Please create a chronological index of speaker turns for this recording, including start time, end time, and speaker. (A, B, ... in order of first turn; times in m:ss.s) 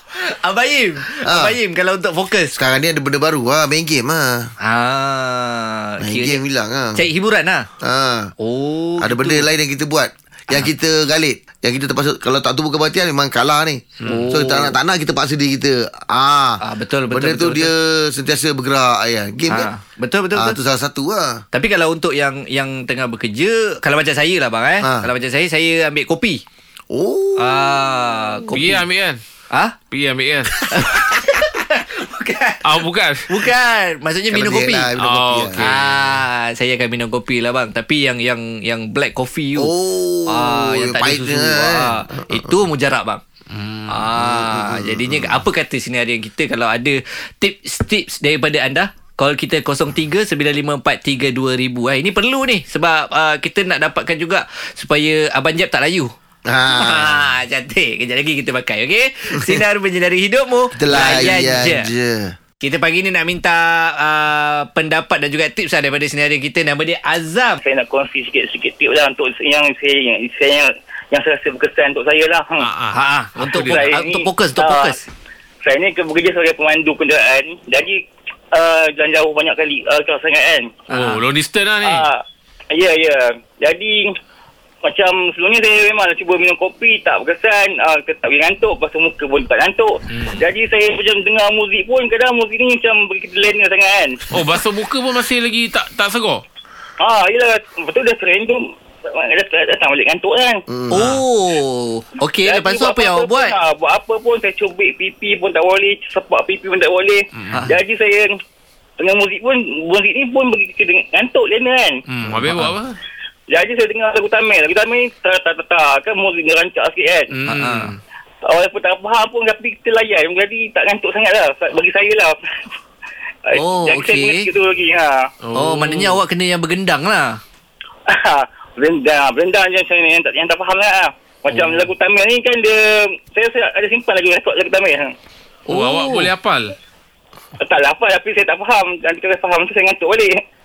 0:00.3-0:02.5 A
0:01.2-0:01.6 B
0:02.6-0:04.5 B
0:04.6-0:06.4 A
0:06.0-0:07.0 B
0:07.0-0:07.7 A
0:07.8-0:08.3 B
0:08.4-0:09.5 A
0:09.0-0:19.7 B
0:14.0-0:14.3 C
0:14.1-0:14.8 A
0:16.6-0:17.7 A
0:19.5-0:20.6 A
0:20.3-0:21.4 B
0:21.5-0:26.4 A
0:24.8-0:25.1 B
0:26.9-0:28.0 B
0:27.4-0:28.8 A
0:28.5-0:29.2 C
0:29.9-0:30.7 C
0:30.7-0:34.9 A
0:32.6-0:33.4 C
0:34.3-0:35.6 B
0:35.0-0:36.2 C
0:35.6-0:39.7 A
0:39.6-0:42.6 B
0:40.3-0:43.2 A
0:43.5-0:44.0 C
0:43.9-0:56.1 A
0:44.2-0:45.4 B
0:56.5-0:57.3 B
0:56.7-1:01.9 A
1:00.8-1:02.4 B
1:02.6-1:07.6 A
1:07.6-1:12.7 D
1:12.6-1:13.9 C
1:12.9-1:15.0 A
1:13.5-1:15.0 D
1:15.6-1:20.8 D
1:20.9-1:21.2 A
1:20.9-1:22.1 C
1:21.8-1:24.2 D
1:24.8-1:34.2 D
1:30.1-1:30.4 C
1:34.3-1:36.4 C
1:37.0-1:40.6 D
1:40.7-1:41.0 B
1:40.9-1:43.6 A
1:41.0-1:41.2 C
1:42.4-1:48.4 D
1:49.0-1:52.0 D
1:52.1-1:53.0 C
1:52.4-1:52.7 A
1:53.5-1:57.3 D
1:57.3-1:58.0 C
1:57.5-1:57.9 A
1:58.5-2:02.4 D
2:03.5-2:05.3 D
2:03.5-2:04.5 A
2:05.4-2:06.2 C
2:05.6-2:07.4 A
2:08.1-2:15.1 D
2:15.7-2:16.3 A
2:15.7-2:16.7 C
2:17.6-2:20.4 D